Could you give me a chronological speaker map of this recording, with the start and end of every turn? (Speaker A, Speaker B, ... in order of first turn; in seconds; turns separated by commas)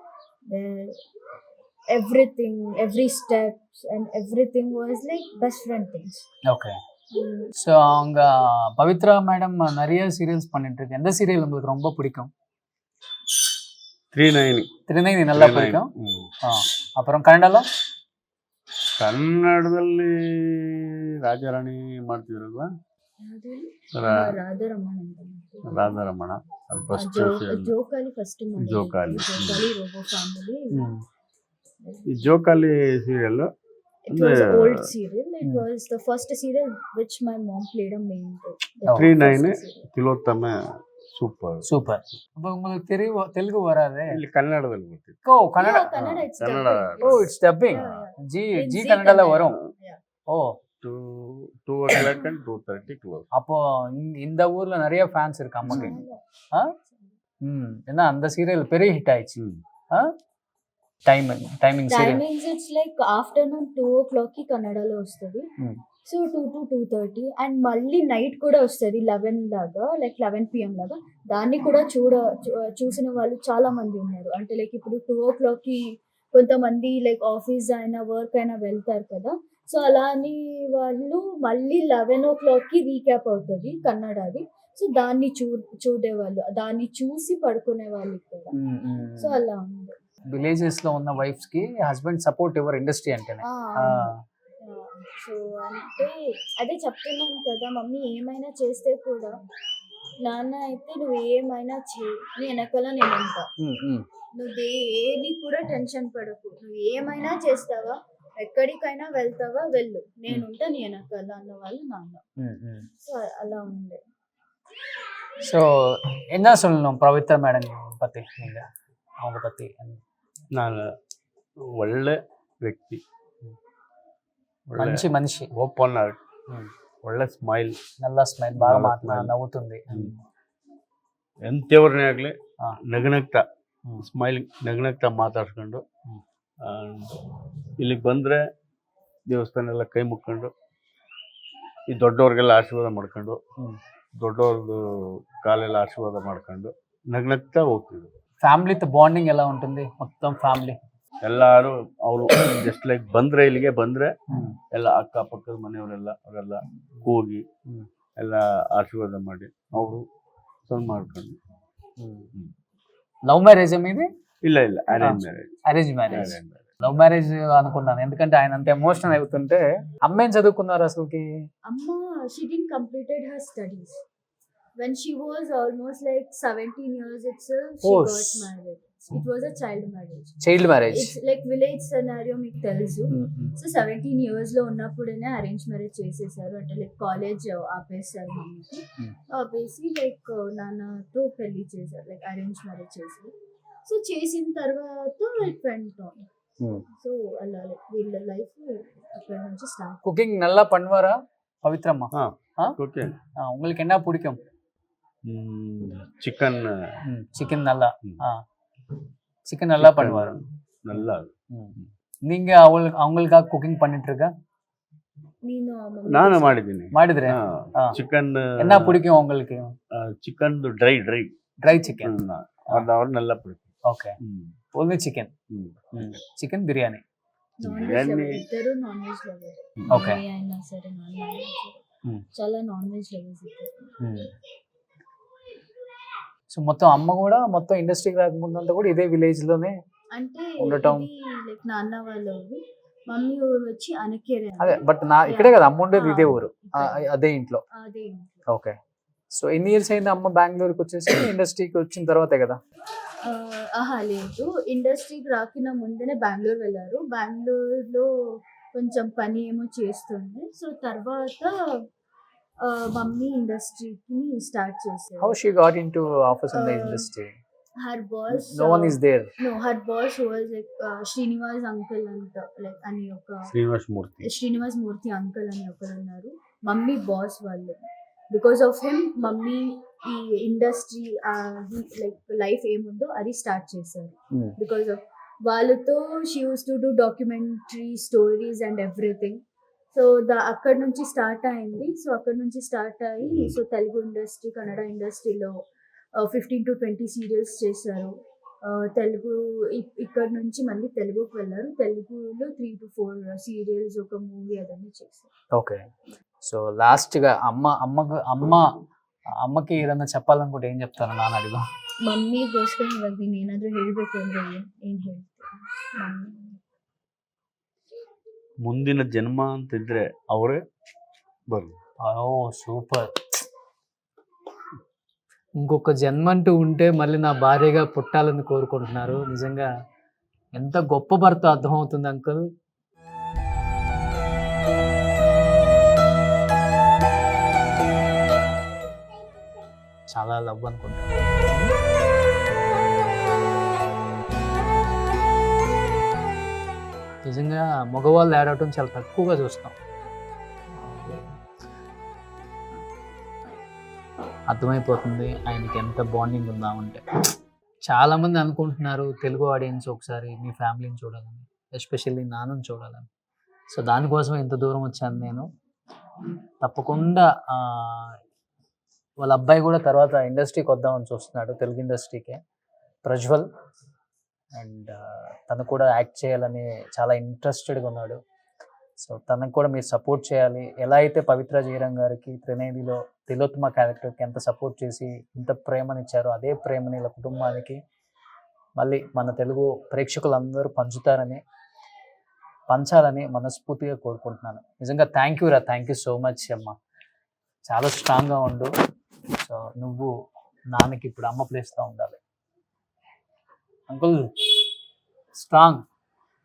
Speaker A: 0.5-1.0, Speaker A: 1.9-6.2, Speaker B: 6.5-6.8, Speaker A: 7.1-7.5, Speaker B: 7.6-12.3, Speaker C: 14.1-14.7, Speaker B: 14.9-15.9, Speaker C: 15.3-16.3, Speaker B: 16.4-17.7, Speaker C: 19.0-22.7, Speaker A: 23.2-25.9, Speaker C: 24.0-24.4, Speaker C: 25.7-27.7, Speaker A: 26.9-30.8, Speaker C: 28.6-29.7, Speaker B: 30.7-31.0, Speaker A: 31.8-32.3, Speaker C: 32.1-33.5, Speaker A: 34.1-39.9, Speaker C: 34.1-34.7, Speaker B: 38.9-39.2, Speaker C: 38.9-40.6, Speaker C: 41.1-41.7, Speaker B: 41.6-44.2, Speaker C: 44.1-45.2, Speaker B: 45.2-45.9, Speaker A: 45.6-50.0, Speaker C: 45.9-48.0, Speaker B: 47.0-49.6, Speaker B: 50.3-50.6, Speaker C: 50.8-53.3, Speaker B: 53.3-56.0, Speaker A: 55.7-56.2, Speaker A: 56.9-57.1, Speaker B: 57.4-59.4, Speaker B: 61.1-62.2, Speaker A: 61.9-65.5, Speaker A: 66.0-88.5, Speaker B: 88.5-89.4, Speaker A: 89.2-89.9, Speaker B: 90.3-94.2, Speaker A: 93.4-99.3, Speaker A: 100.2-103.5, Speaker B: 103.6-104.1, Speaker A: 104.3-112.2, Speaker B: 112.4-112.9, Speaker A: 113.0-114.0, Speaker B: 115.4-118.6, Speaker B: 119.2-120.0, Speaker C: 120.5-120.9, Speaker C: 121.6-123.0, Speaker C: 124.7-126.2, Speaker B: 124.8-125.5, Speaker C: 127.0-127.8, Speaker B: 128.0-130.2, Speaker C: 128.6-129.3, Speaker C: 131.4-132.4, Speaker C: 132.9-133.4, Speaker C: 134.0-135.8, Speaker C: 136.6-137.2, Speaker C: 137.8-138.4, Speaker C: 139.3-140.5, Speaker C: 141.9-143.4, Speaker C: 144.2-148.1, Speaker B: 148.4-150.8, Speaker C: 151.2-154.1, Speaker B: 154.3-154.6, Speaker C: 154.7-157.4, Speaker C: 158.2-160.1, Speaker C: 160.7-161.4, Speaker B: 162.0-162.3, Speaker B: 163.3-164.1, Speaker C: 164.4-165.5, Speaker B: 165.0-171.3, Speaker C: 166.1-167.0, Speaker A: 171.7-174.0, Speaker A: 174.8-193.3, Speaker B: 177.8-178.5, Speaker B: 180.4-181.2, Speaker B: 183.1-183.6, Speaker A: 193.8-196.2, Speaker A: 196.9-200.0, Speaker B: 200.0-202.8, Speaker C: 202.2-203.2, Speaker B: 203.4-204.4, Speaker C: 205.2-206.7, Speaker B: 207.1-208.4, Speaker B: 209.5-210.4, Speaker C: 209.8-211.9, Speaker B: 210.9-211.8, Speaker B: 212.3-214.3, Speaker A: 215.4-216.5, Speaker C: 216.1-219.0, Speaker B: 216.9-218.0, Speaker B: 218.6-219.7, Speaker C: 220.0-221.3, Speaker B: 221.6-222.2, Speaker C: 222.0-223.7, Speaker B: 223.9-224.2, Speaker C: 224.2-224.6, Speaker B: 224.7-225.3, Speaker C: 225.5-226.2, Speaker B: 225.9-227.0, Speaker A: 227.6-231.8, Speaker C: 227.6-228.4, Speaker C: 229.8-230.1, Speaker B: 229.9-230.2, Speaker A: 232.3-233.7, Speaker B: 234.0-234.3, Speaker B: 236.5-239.8, Speaker A: 240.2-247.1, Speaker B: 240.6-241.1, Speaker B: 244.6-247.6, Speaker A: 247.7-248.4, Speaker B: 248.5-248.8, Speaker B: 249.3-252.6, Speaker A: 253.2-261.8, Speaker A: 262.6-265.4, Speaker B: 265.2-267.3, Speaker A: 266.5-267.1, Speaker A: 267.8-273.5, Speaker B: 268.3-269.3, Speaker C: 273.5-274.3, Speaker A: 274.2-277.8, Speaker A: 278.3-289.4, Speaker A: 289.9-295.5, Speaker A: 296.2-305.3, Speaker B: 305.5-305.9, Speaker B: 306.4-308.7, Speaker B: 309.4-311.6, Speaker A: 312.0-316.6, Speaker C: 318.6-320.6, Speaker B: 322.0-323.1, Speaker B: 325.6-329.7, Speaker B: 330.6-332.4, Speaker B: 340.1-341.7, Speaker B: 347.2-349.8, Speaker B: 350.9-351.3, Speaker B: 354.5-357.0, Speaker B: 357.9-363.1, Speaker B: 363.7-365.5, Speaker B: 366.6-368.2, Speaker B: 369.2-372.4, Speaker B: 373.0-373.5, Speaker B: 374.6-378.2, Speaker B: 379.0-387.8, Speaker B: 388.8-391.4, Speaker B: 392.7-396.7, Speaker B: 397.7-398.7, Speaker B: 399.4-400.1, Speaker B: 400.7-402.2, Speaker B: 403.9-404.2, Speaker B: 405.4-405.8